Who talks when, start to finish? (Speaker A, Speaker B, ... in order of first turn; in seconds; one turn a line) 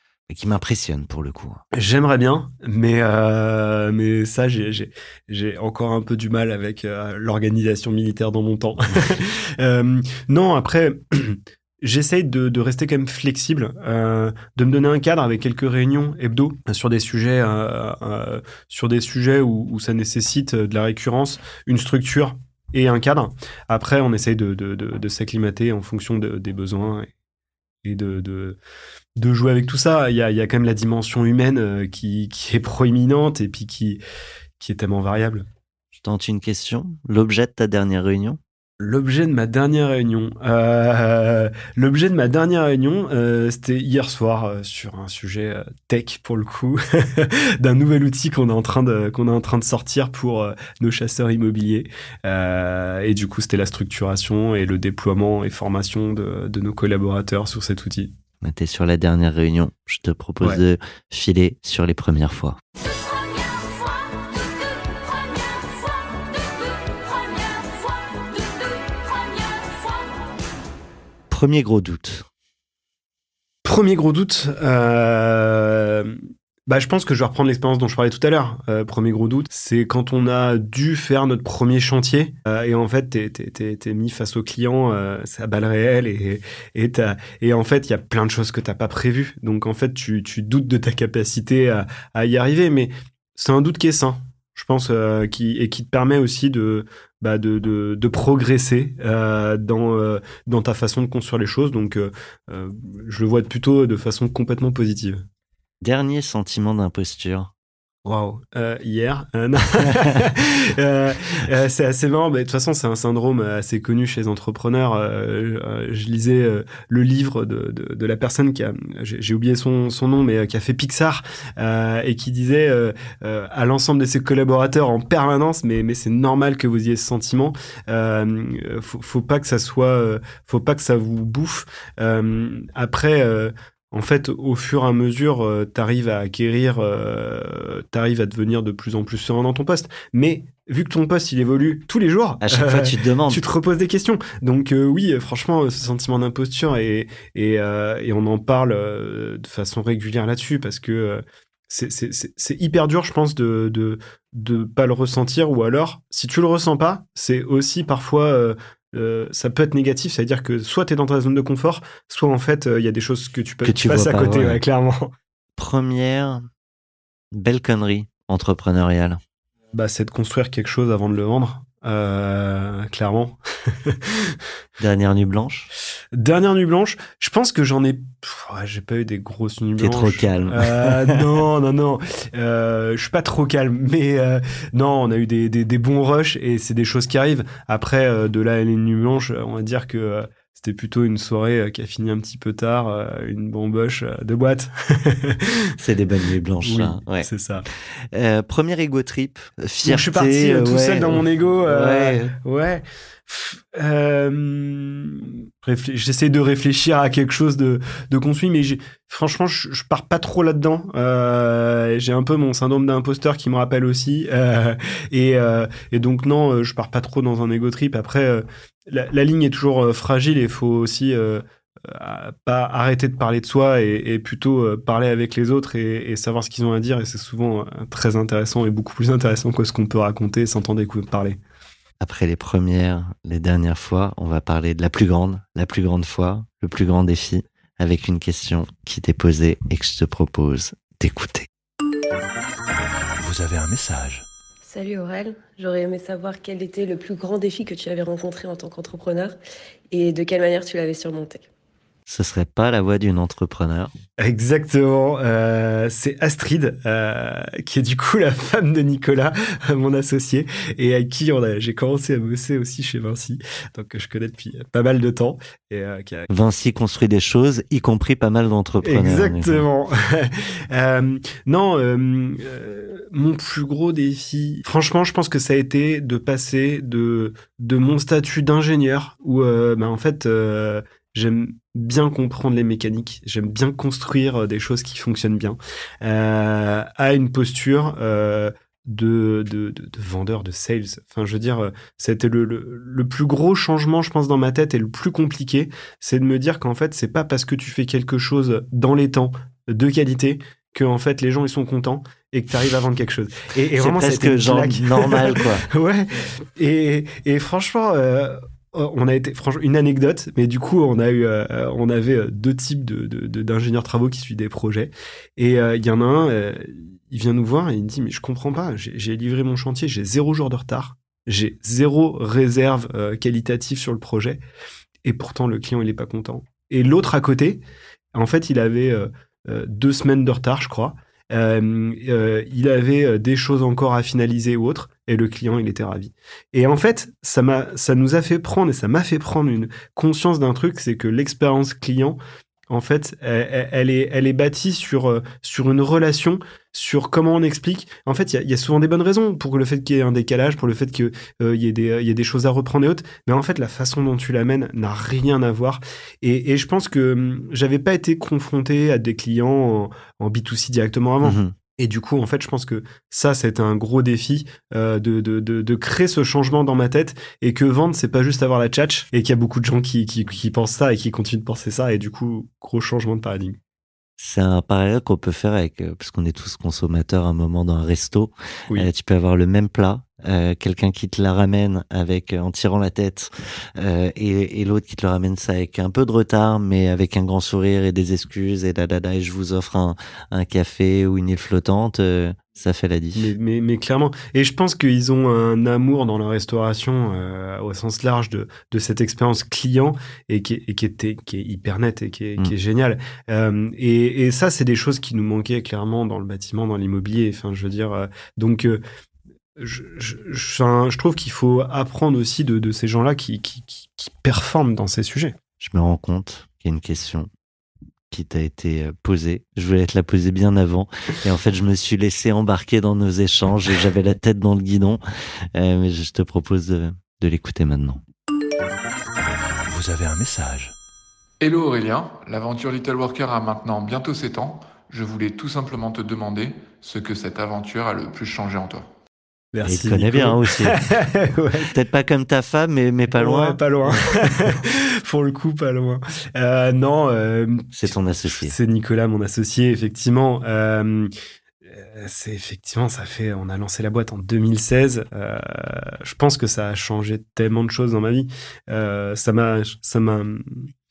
Speaker A: 0.3-1.6
Speaker B: 1.7-27.1
Speaker B: 27.8-28.6
Speaker B: 29.2-34.0
Speaker B: 34.6-35.5
Speaker A: 35.9-38.4
Speaker B: 38.8-58.1
Speaker A: 58.4-62.6
Speaker A: 71.3-72.3
Speaker B: 73.6-105.2
Speaker A: 105.8-107.5
Speaker B: 108.0-165.1
Speaker A: 142.4-143.4
Speaker A: 163.6-164.6
Speaker A: 165.6-166.4
Speaker A: 167.3-169.2
Speaker B: 169.7-174.4
Speaker A: 174.8-175.7
Speaker B: 176.1-195.7
Speaker A: 179.8-181.2
Speaker A: 195.8-202.3
Speaker B: 196.6-197.7
Speaker B: 199.8-231.4
Speaker A: 232.0-241.5
Speaker C: 243.2-244.2
Speaker D: 244.6-249.3
Speaker D: 249.9-251.5
Speaker A: 252.1-253.9
Speaker B: 254.2-266.3
Speaker A: 266.3-269.6
Speaker B: 268.8-324.4
Speaker A: 303.8-305.6
Speaker B: 325.0-327.6
Speaker B: 328.1-342.2
Speaker B: 342.7-373.6
Speaker A: 361.2-361.5
Speaker A: 374.2-393.3
Speaker B: 393.1-408.8
Speaker B: 409.6-415.4
Speaker A: 415.6-417.3
Speaker A: 418.1-428.0
Speaker C: 429.6-430.7
Speaker E: 431.4-438.9
Speaker B: 439.5-441.7
Speaker A: 439.6-440.8
Speaker A: 441.6-444.5
Speaker B: 443.1-451.1
Speaker A: 447.7-448.5
Speaker B: 451.7-460.7